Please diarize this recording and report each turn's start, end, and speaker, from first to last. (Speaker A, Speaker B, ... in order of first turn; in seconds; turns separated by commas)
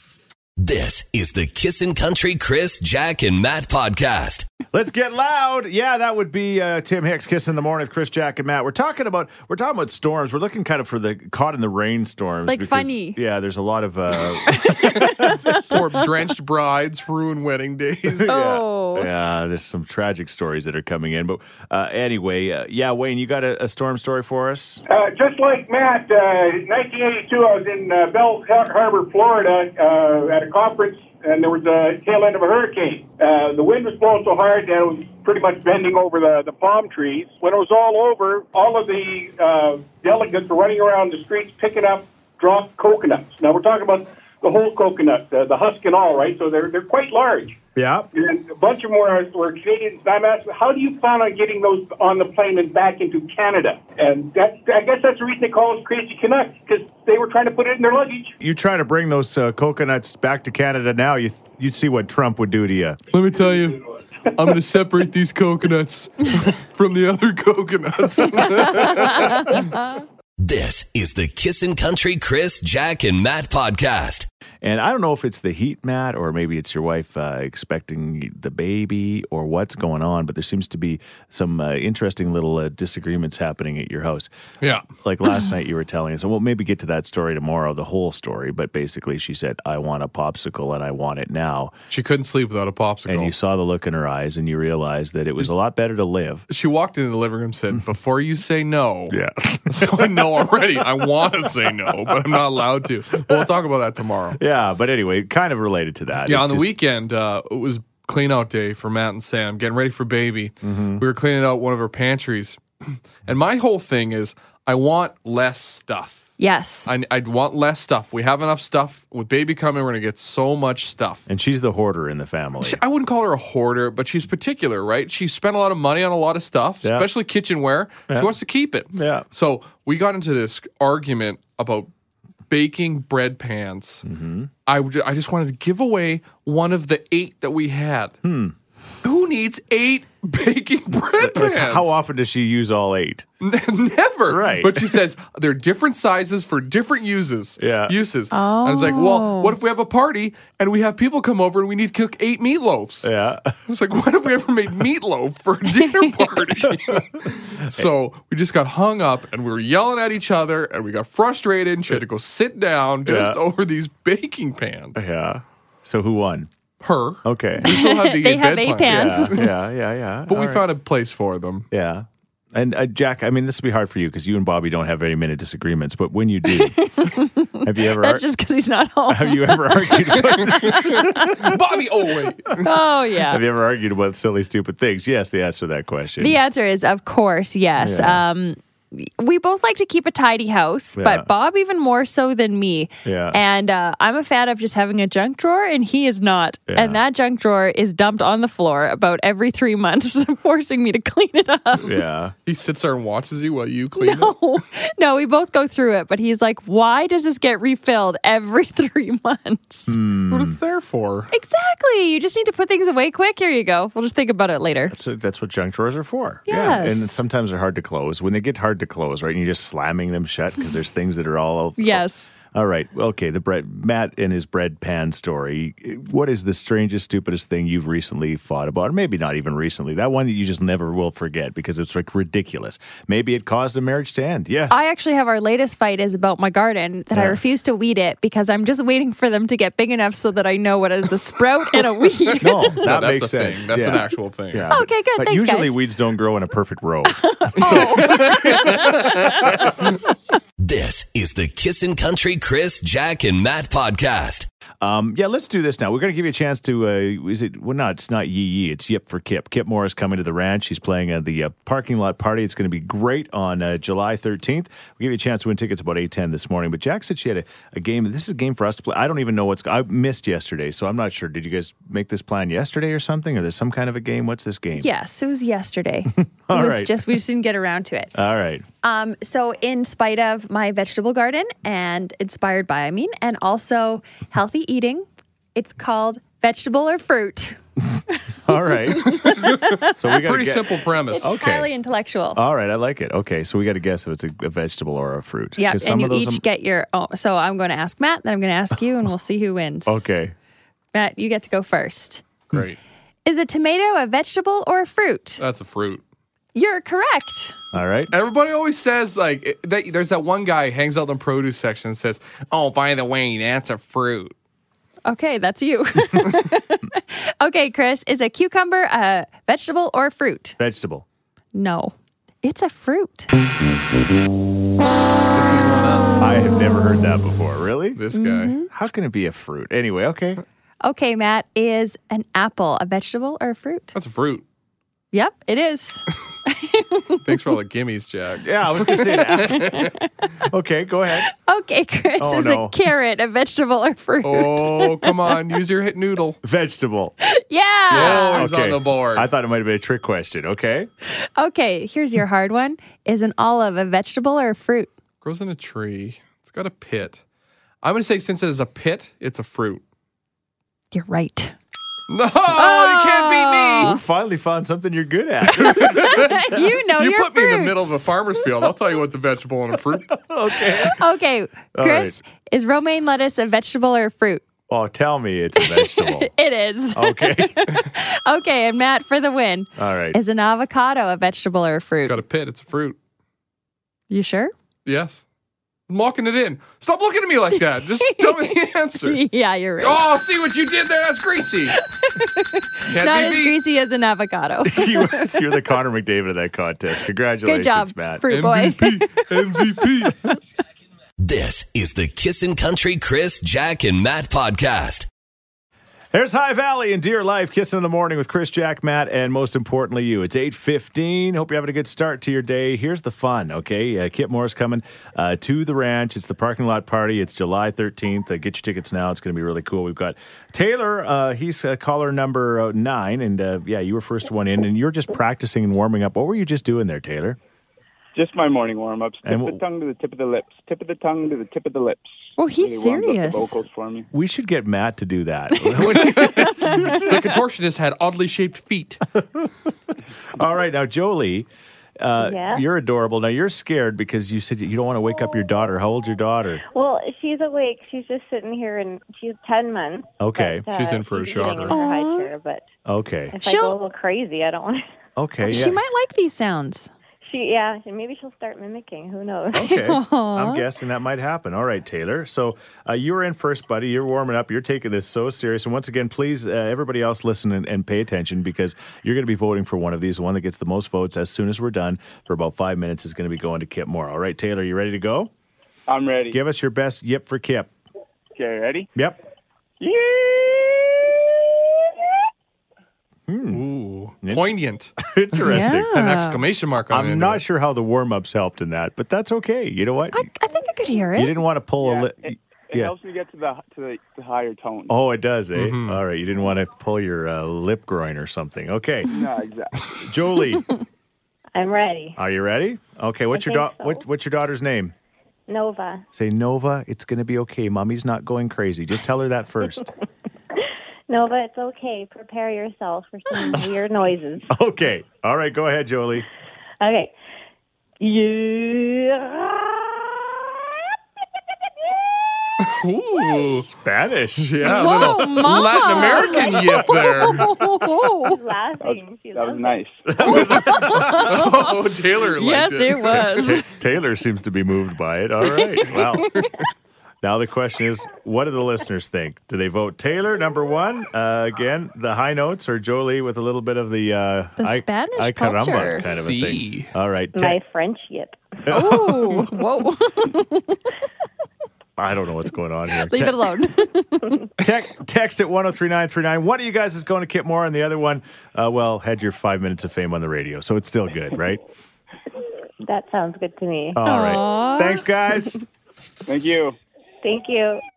Speaker A: 0.6-4.5, Speaker B: 4.7-15.6, Speaker C: 12.5-13.2, Speaker C: 14.5-15.8, Speaker D: 14.9-18.3, Speaker B: 18.1-24.8, Speaker C: 18.3-19.1, Speaker E: 24.9-47.6, Speaker B: 47.8-48.1, Speaker E: 48.1-58.4, Speaker B: 58.4-63.0, Speaker D: 63.1-63.8, Speaker D: 64.3-69.7, Speaker C: 69.2-69.9, Speaker A: 70.4-74.3, Speaker B: 74.6-84.3, Speaker B: 85.0-91.7, Speaker D: 91.9-93.3, Speaker B: 93.1-96.5, Speaker D: 96.5-104.4, Speaker B: 99.1-100.2, Speaker B: 104.4-106.7, Speaker D: 106.3-116.3, Speaker B: 110.6-111.0, Speaker C: 116.4-116.9, Speaker D: 116.9-121.3, Speaker B: 121.3-122.8, Speaker D: 122.6-131.9, Speaker B: 126.8-127.1, Speaker B: 128.9-129.3, Speaker D: 132.5-134.0, Speaker B: 134.1-134.5, Speaker D: 134.7-138.2, Speaker B: 138.2-138.6, Speaker D: 139.0-142.0, Speaker B: 141.2-143.3, Speaker D: 143.4-153.1, Speaker B: 144.3-145.0, Speaker B: 147.6-147.9, Speaker C: 148.3-149.6, Speaker B: 153.0-153.6, Speaker D: 153.7-165.1, Speaker B: 156.7-157.0, Speaker B: 163.1-163.4, Speaker B: 164.9-166.5, Speaker D: 166.8-169.6, Speaker B: 167.2-167.7, Speaker C: 167.6-169.4, Speaker B: 168.8-170.7, Speaker D: 170.3-171.7, Speaker B: 171.7-178.3, Speaker C: 176.5-181.5, Speaker B: 179.1-181.6, Speaker D: 180.5-182.7, Speaker C: 182.6-183.4, Speaker B: 183.2-186.4, Speaker C: 186.2-201.9, Speaker B: 187.8-188.2, Speaker B: 191.0-191.3, Speaker B: 193.1-193.4, Speaker B: 196.7-197.0, Speaker B: 201.8-202.3, Speaker D: 202.5-204.4, Speaker C: 204.0-210.0, Speaker B: 209.9-210.6, Speaker D: 210.3-211.3, Speaker C: 211.3-215.0, Speaker B: 214.9-234.8, Speaker C: 216.5-217.2, Speaker C: 221.8-222.3, Speaker C: 234.7-242.8, Speaker B: 237.1-237.4, Speaker B: 242.4-249.8, Speaker D: 242.8-244.7, Speaker C: 244.7-245.8, Speaker C: 247.2-249.6, Speaker D: 247.6-249.7, Speaker A: 250.6-254.5, Speaker B: 254.8-274.9, Speaker C: 274.8-278.1, Speaker B: 276.1-277.2, Speaker B: 278.1-278.6, Speaker C: 278.8-289.9, Speaker B: 288.5-289.3, Speaker D: 289.1-291.4, Speaker B: 289.9-291.7, Speaker C: 291.1-292.4, Speaker B: 292.3-296.4, Speaker C: 295.6-300.1, Speaker B: 299.9-300.4, Speaker C: 300.9-302.2, Speaker D: 302.5-302.8, Speaker C: 303.3-305.4, Speaker D: 305.4-306.0, Speaker C: 306.6-307.6, Speaker B: 307.7-308.1, Speaker D: 308.1-314.4, Speaker C: 315.1-320.6, Speaker B: 320.6-321.1, Speaker C: 321.6-323.3, Speaker D: 325.3-326.1, Speaker B: 326.2-328.0, Speaker D: 328.0-328.5, Speaker C: 328.1-328.7, Speaker B: 328.7-330.4, Speaker C: 330.8-333.9, Speaker D: 333.9-334.4, Speaker C: 335.1-337.2, Speaker D: 337.2-339.9, Speaker B: 338.4-341.3, Speaker C: 339.6-340.3, Speaker C: 341.4-345.1, Speaker B: 342.2-342.8, Speaker D: 344.2-346.4, Speaker B: 346.4-347.1, Speaker C: 347.2-348.5, Speaker D: 347.9-349.3, Speaker B: 347.9-350.9, Speaker C: 351.1-354.9, Speaker D: 355.2-357.2, Speaker D: 357.8-359.8, Speaker C: 360.9-361.6, Speaker D: 362.1-364.0, Speaker C: 362.5-364.0, Speaker B: 363.8-366.6, Speaker D: 365.6-370.1, Speaker C: 365.8-368.1, Speaker B: 370.1-371.1, Speaker C: 370.8-374.4, Speaker B: 371.7-372.2, Speaker B: 374.7-376.3, Speaker C: 375.6-382.2, Speaker B: 376.9-377.7, Speaker B: 379.8-380.2, Speaker D: 382.0-383.0, Speaker C: 384.1-384.5, Speaker D: 384.9-385.2, Speaker D: 385.9-389.2, Speaker C: 387.8-388.5, Speaker C: 389.0-390.0, Speaker D: 389.8-391.8, Speaker C: 391.8-395.4, Speaker D: 392.8-393.6, Speaker B: 394.6-398.3, Speaker C: 397.4-399.8, Speaker D: 398.3-400.3, Speaker A: 401.2-405.1, Speaker B: 406.1-427.4, Speaker F: 428.1-434.1, Speaker B: 429.2-429.6, Speaker C: 432.4-433.6, Speaker B: 434.1-437.4, Speaker C: 435.6-437.1, Speaker D: 435.9-439.0, Speaker B: 439.1-439.5, Speaker B: 440.3-441.5, Speaker B: 442.0-446.6, Speaker G: 442.2-442.6, Speaker G: 446.7-452.6, Speaker B: 450.2-450.7, Speaker D: 450.7-451.8, Speaker C: 451.7-452.3, Speaker B: 452.9-453.4, Speaker G: 453.3-454.8, Speaker C: 453.4-453.8, Speaker B: 455.2-455.8, Speaker C: 455.5-456.9, Speaker G: 457.2-459.8, Speaker B: 459.5-475.3, Speaker C: 459.6-460.6, Speaker F: 475.9-476.4, Speaker B: 476.3-477.7, Speaker F: 478.4-478.9, Speaker B: 478.9-479.2, Speaker F: 479.8-482.1, Speaker B: 483.3-483.7, Speaker D: 483.5-484.9, Speaker B: 484.2-485.9, Speaker C: 485.5-486.4, Speaker D: 485.9-487.4, Speaker B: 486.9-490.3, Speaker C: 490.1-491.4, Speaker B: 491.2-492.9, Speaker F: 491.8-495.0, Speaker B: 494.9-499.1, Speaker D: 495.6-496.0, Speaker F: 499.1-499.9, Speaker B: 500.0-500.7, Speaker G: 501.6-502.2, Speaker B: 502.2-504.9, Speaker G: 503.3-504.0, Speaker G: 505.5-506.1, Speaker B: 506.1-509.9, Speaker G: 511.1-514.5, Speaker B: 514.5-516.3, Speaker G: 516.8-517.1, Speaker G: 518.0-520.5, Speaker G: 521.9-522.2, Speaker D: 522.6-523.7, Speaker B: 523.3-525.2, Speaker D: 524.4-527.5, Speaker C: 524.6-528.4, Speaker G: 525.8-529.8, Speaker F: 528.8-530.1, Speaker B: 530.1-531.4, Speaker C: 530.2-531.8, Speaker D: 530.8-533.5, Speaker C: 532.3-533.6, Speaker B: 533.1-536.4, Speaker C: 535.8-536.5, Speaker B: 537.2-547.6, Speaker C: 544.6-546.2, Speaker D: 546.0-546.9, Speaker G: 547.4-548.6, Speaker B: 548.7-549.5, Speaker C: 548.7-550.9, Speaker B: 552.0-553.5, Speaker C: 553.0-554.5, Speaker B: 554.6-561.6, Speaker G: 562.8-564.0, Speaker B: 564.0-565.6, Speaker C: 564.0-565.0, Speaker F: 566.3-566.8, Speaker G: 567.2-567.8